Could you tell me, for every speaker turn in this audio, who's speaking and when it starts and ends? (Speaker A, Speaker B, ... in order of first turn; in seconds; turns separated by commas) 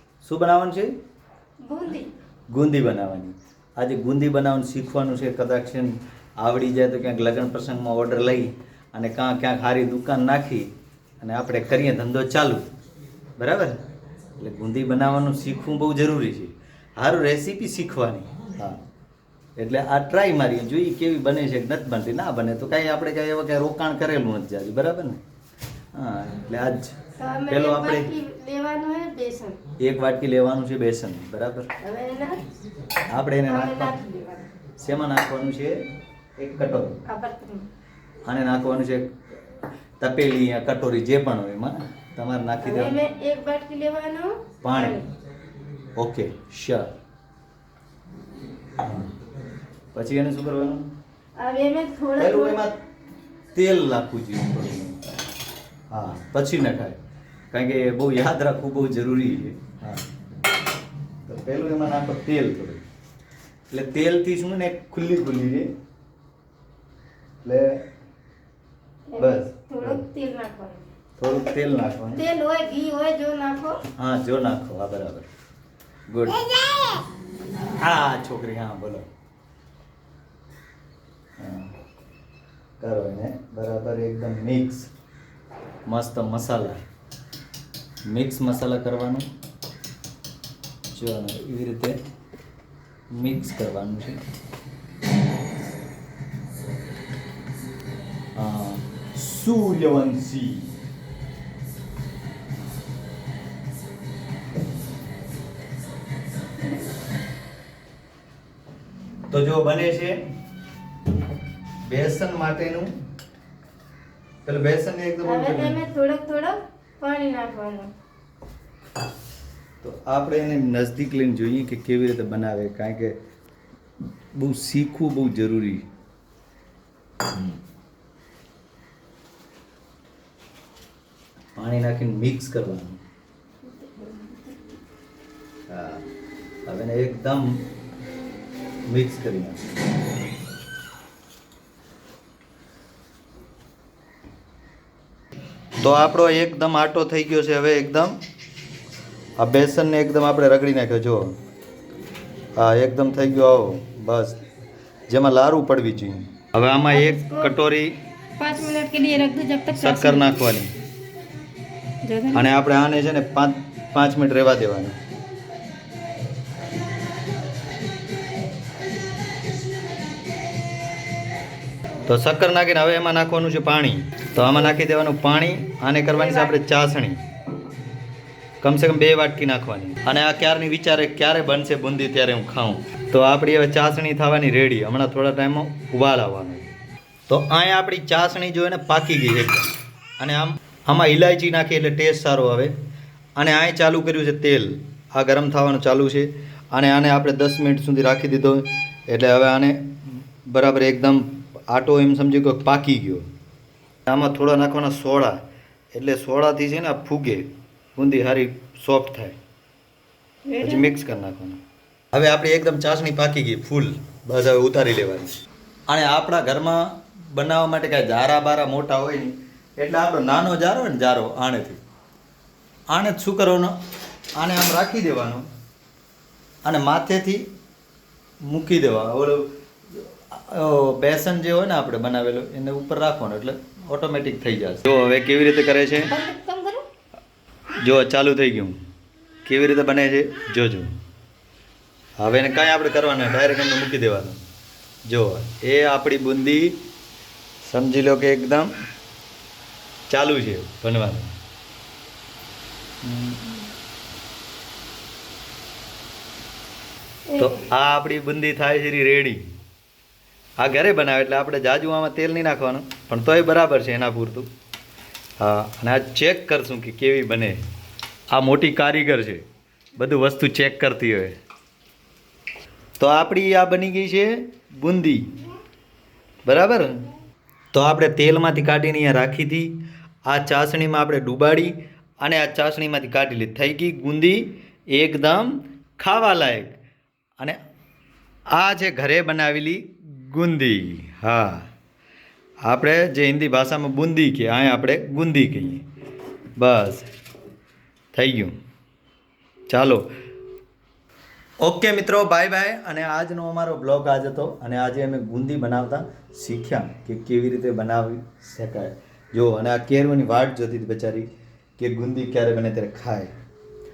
Speaker A: 0.2-0.9, Speaker B: 1.6-2.1, Speaker A: 2.5-10.7, Speaker A: 11.2-12.7, Speaker A: 13.4-13.8, Speaker A: 14.4-18.8, Speaker A: 19.6-25.2, Speaker A: 25.9-26.9, Speaker B: 27.2-29.6, Speaker A: 27.5-28.1, Speaker A: 29.8-31.7, Speaker B: 31.8-32.5, Speaker A: 33.1-33.9, Speaker B: 33.5-34.5, Speaker A: 34.8-35.8, Speaker A: 36.4-37.0, Speaker B: 37.0-37.7, Speaker A: 38.3-39.1, Speaker A: 40.0-43.0, Speaker B: 42.6-45.1, Speaker A: 44.6-45.0, Speaker A: 46.0-46.9, Speaker A: 48.8-49.1, Speaker A: 49.9-50.9, Speaker B: 51.4-52.6, Speaker A: 52.2-52.8, Speaker A: 53.5-55.0, Speaker A: 55.9-57.0, Speaker A: 57.5-60.0, Speaker A: 61.3-62.8, Speaker A: 63.7-65.7, Speaker A: 67.4-67.8, Speaker B: 69.1-70.8, Speaker A: 69.2-70.0, Speaker A: 71.2-72.2, Speaker B: 72.2-73.8, Speaker A: 74.0-75.3, Speaker A: 76.1-76.5, Speaker B: 76.7-77.0, Speaker A: 77.7-79.1, Speaker A: 81.4-81.7, Speaker A: 82.8-84.9, Speaker A: 85.9-86.8, Speaker A: 88.1-89.3, Speaker A: 90.9-92.0, Speaker A: 93.1-94.2, Speaker A: 98.3-100.7, Speaker A: 109.3-110.2, Speaker A: 111.9-112.9, Speaker A: 114.5-115.8, Speaker B: 115.2-117.9, Speaker A: 119.8-123.2, Speaker A: 124.3-125.8, Speaker A: 131.6-133.0, Speaker B: 133.7-134.8, Speaker A: 135.7-136.1, Speaker A: 136.7-137.6, Speaker A: 138.9-139.6, Speaker A: 145.8-148.2, Speaker A: 149.4-151.4, Speaker A: 152.6-154.4, Speaker A: 155.1-157.9, Speaker B: 156.9-157.5, Speaker B: 158.4-160.4, Speaker A: 159.7-160.7, Speaker B: 162.0-162.5, Speaker A: 162.3-164.9, Speaker A: 172.1-177.2, Speaker B: 176.1-176.6, Speaker A: 178.6-186.8, Speaker A: 187.3-192.7, Speaker A: 193.4-203.2, Speaker A: 204.1-205.4, Speaker A: 205.9-209.3, Speaker B: 210.5-210.9, Speaker A: 210.6-211.6, Speaker A: 212.1-215.3, Speaker A: 215.9-221.8, Speaker A: 222.9-223.8, Speaker A: 224.4-225.5, Speaker A: 226.7-227.5, Speaker A: 228.5-229.5, Speaker A: 230.3-236.1, Speaker B: 236.1-236.8, Speaker A: 237.8-238.8, Speaker A: 239.5-240.9, Speaker A: 242.2-244.4, Speaker A: 245.1-246.8, Speaker A: 247.6-248.7, Speaker A: 250.1-251.3, Speaker A: 253.1-253.5, Speaker B: 257.3-257.7, Speaker A: 257.4-259.4, Speaker A: 260.6-264.5, Speaker A: 265.4-267.6, Speaker A: 268.3-269.4, Speaker A: 270.0-271.4, Speaker A: 273.0-275.3, Speaker A: 276.5-277.0, Speaker A: 277.7-279.7, Speaker A: 280.3-286.8, Speaker A: 288.5-291.7, Speaker A: 292.7-295.8, Speaker A: 296.6-297.1, Speaker A: 298.1-298.5, Speaker A: 299.7-300.1, Speaker A: 301.6-313.3